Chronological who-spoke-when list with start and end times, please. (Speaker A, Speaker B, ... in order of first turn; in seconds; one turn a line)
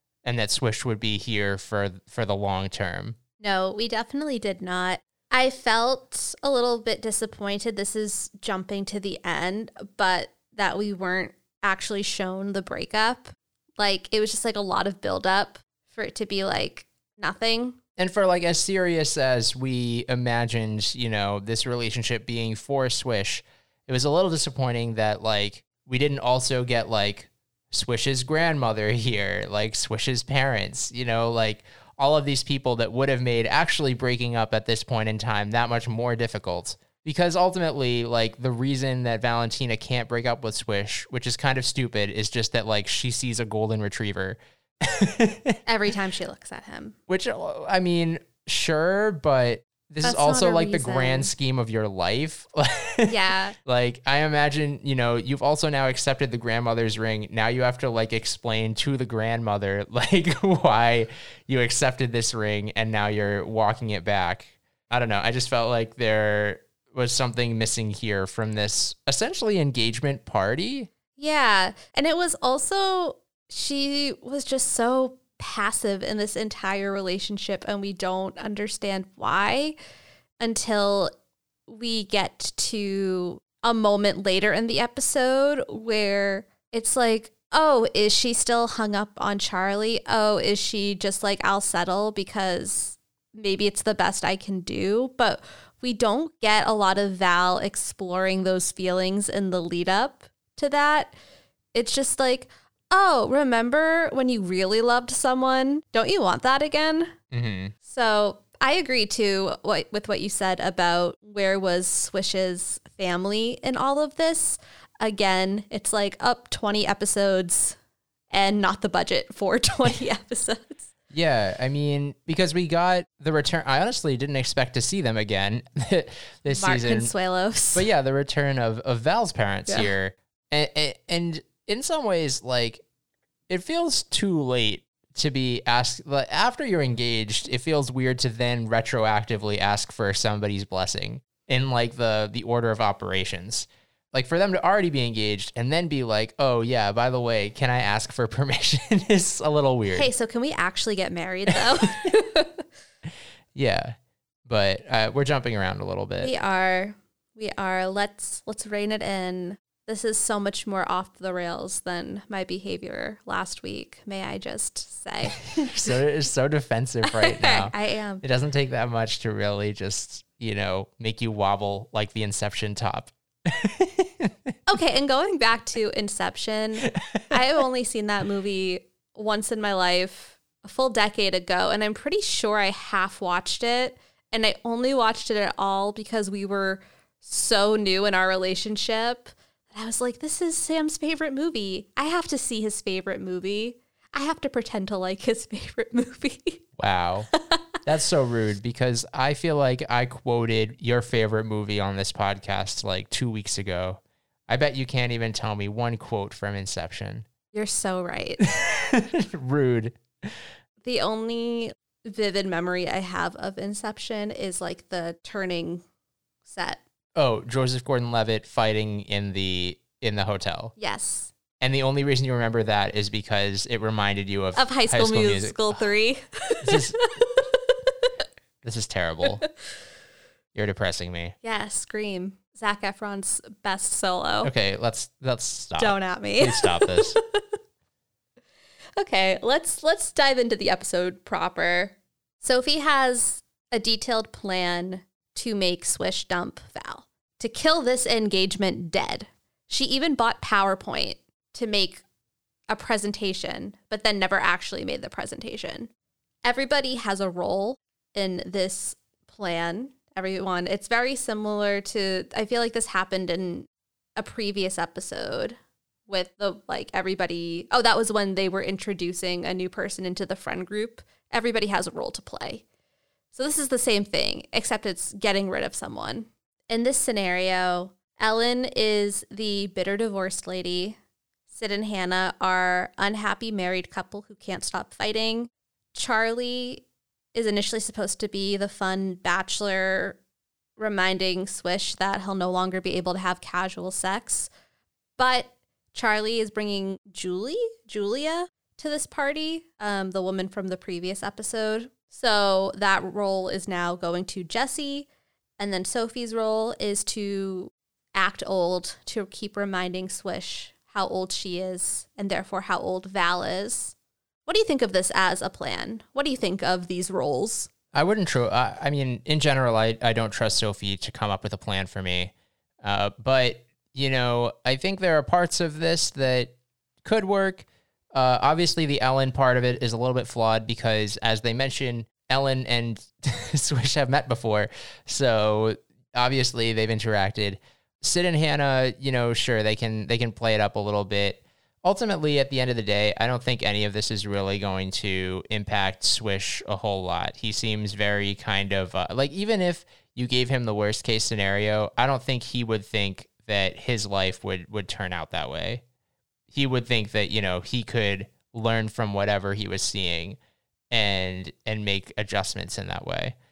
Speaker A: 0.2-3.2
Speaker B: 3.4-17.8
Speaker A: 18.0-45.6
Speaker B: 45.6-47.0
Speaker A: 47.1-70.9
Speaker B: 50.0-51.3
Speaker B: 53.1-53.5
Speaker B: 71.2-79.8
Speaker B: 80.4-81.1
Speaker B: 81.7-101.1
Speaker B: 101.7-107.1
Speaker A: 107.3-107.7
Speaker B: 107.8-117.8
Speaker B: 118.3-120.8
Speaker A: 121.1-127.1
Speaker B: 126.5-127.9
Speaker A: 127.7-132.8
Speaker A: 133.5-150.1
Speaker B: 149.9-152.6
Speaker A: 153.5-156.3
Speaker B: 156.2-165.9
Speaker A: 165.6-174.5
Speaker B: 167.0-168.2
Speaker B: 174.7-196.6
Speaker A: 196.8-197.3
Speaker A: 197.8-207.3
Speaker B: 207.5-208.4
Speaker A: 208.4-210.4
Speaker B: 210.8-215.8
Speaker B: 216.4-216.8
Speaker A: 217.1-220.7
Speaker B: 220.8-221.3
Speaker A: 221.6-225.8
Speaker B: 224.5-227.5
Speaker A: 226.6-227.1
Speaker A: 228.6-229.4
Speaker A: 230.5-231.3
Speaker B: 231.4-234.5
Speaker A: 234.4-237.2
Speaker B: 235.8-237.2
Speaker B: 239.0-252.0
Speaker B: 252.7-255.9
Speaker B: 256.4-265.6
Speaker B: 266.1-272.6
Speaker B: 273.3-281.0
Speaker B: 281.5-290.2
Speaker B: 290.8-294.5
Speaker B: 295.2-305.1
Speaker B: 305.6-313.9
Speaker B: 314.4-317.7
Speaker A: 317.9-355.8
Speaker A: 356.5-360.4
Speaker A: 360.9-363.4